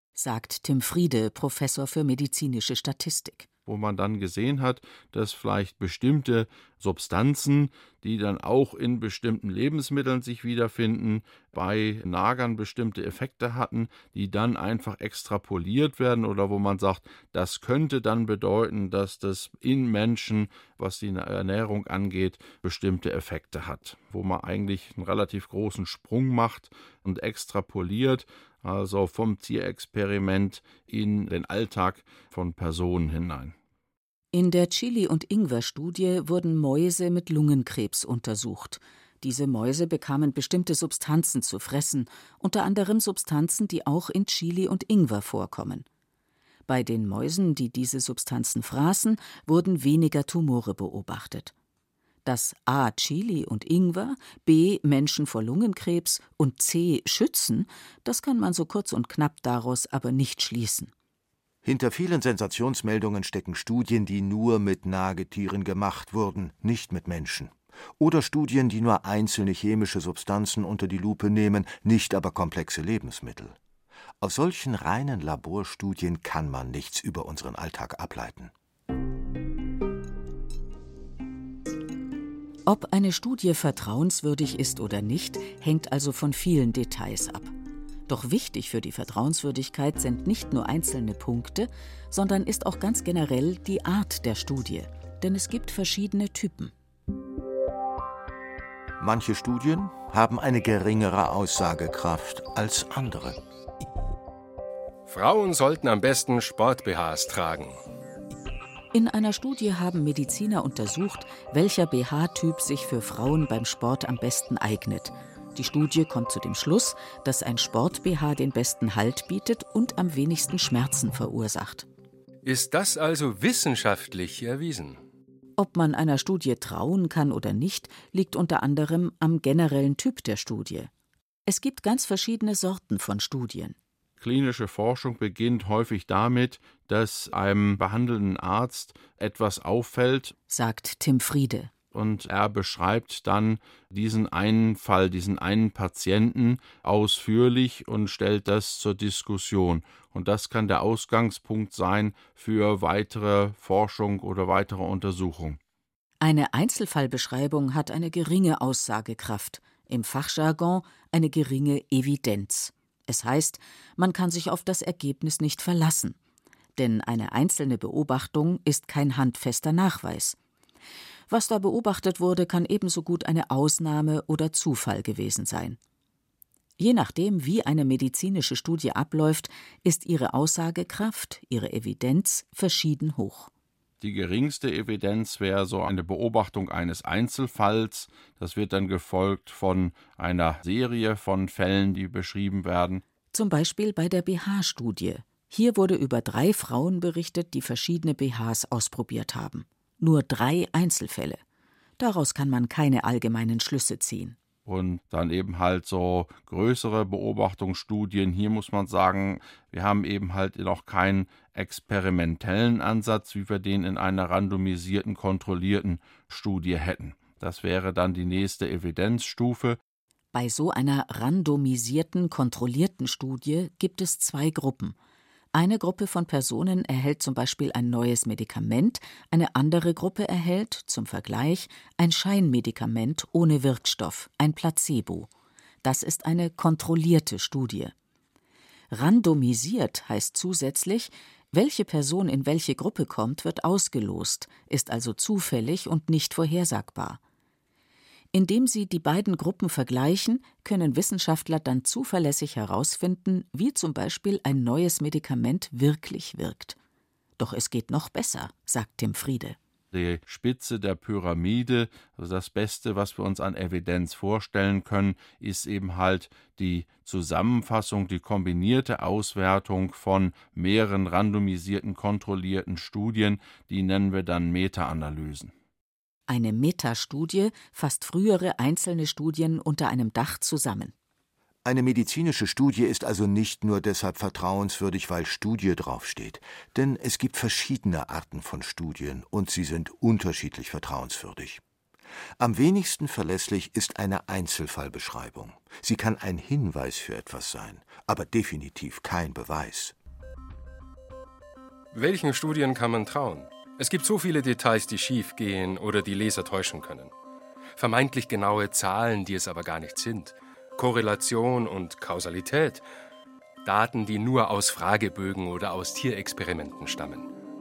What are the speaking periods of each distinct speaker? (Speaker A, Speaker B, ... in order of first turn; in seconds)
Speaker A: 0.2-3.5, 34.3-45.9, 46.7-51.5, 52.2-60.9, 82.7-87.5, 88.1-96.7, 108.9-121.9, 125.6-130.9, 131.5-133.8, 140.5-141.7, 156.2-166.2, 166.8-170.4, 171.3-175.8, 176.8-183.5, 193.3-201.4, 202.0-204.4, 220.3-224.9, 225.5-235.3, 235.8-237.9, 238.9-247.2, 248.3-256.8, 257.4-259.6, 276.3-280.9
Speaker B: 3.7-33.5, 134.2-140.3, 141.9-155.6, 184.0-193.0, 204.7-219.8, 259.9-275.5
Speaker C: 61.6-73.6, 74.2-78.5, 99.0-103.4, 281.6-291.6, 292.4-299.9
Speaker D: 105.1-107.8, 122.4-125.0, 301.9-307.1, 307.8-312.8, 313.6-317.3